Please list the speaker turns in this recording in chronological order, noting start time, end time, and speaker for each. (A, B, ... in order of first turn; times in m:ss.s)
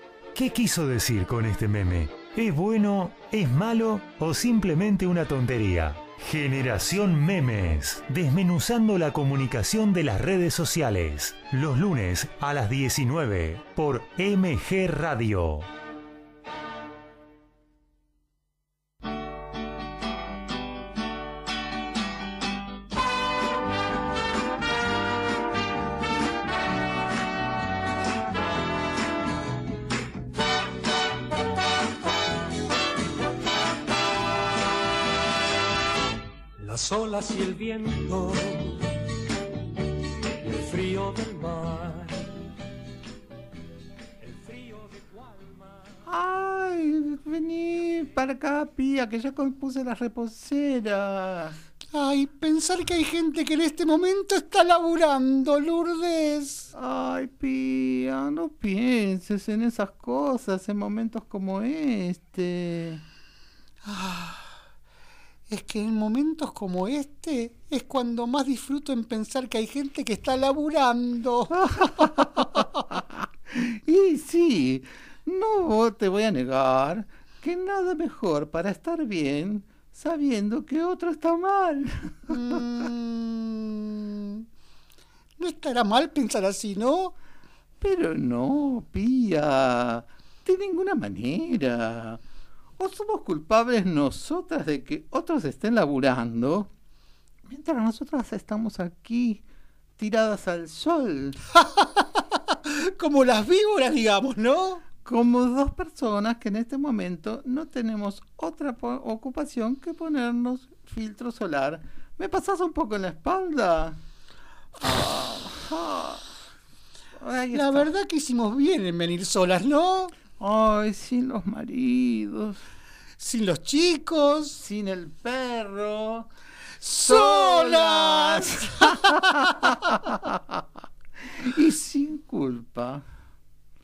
0:00.3-0:15.7 A
0:36.6-0:38.6 B
0:40.5-0:42.1 B
0:46.0-0:51.6 C
0:51.9-0:56.7 D
0:56.7-1:03.0 C
1:03.8-1:04.5 D
1:05.5-1:12.7 D
1:11.6-1:22.6 C
1:22.3-1:24.4 D
1:25.4-1:27.1 D
1:27.8-1:32.2 C
1:32.8-1:36.7 C
1:37.5-1:39.4 C
1:40.0-1:41.4 C
1:41.6-1:44.8 D
1:45.0-1:54.0 C
1:54.8-1:56.3 C
1:57.2-1:57.9 C
1:57.5-2:00.1 D
2:00.4-2:02.6 C
2:03.2-2:04.6 D
2:04.6-2:06.3 C
2:06.8-2:09.9 D
2:07.0-2:10.6 C
2:11.2-2:13.0 C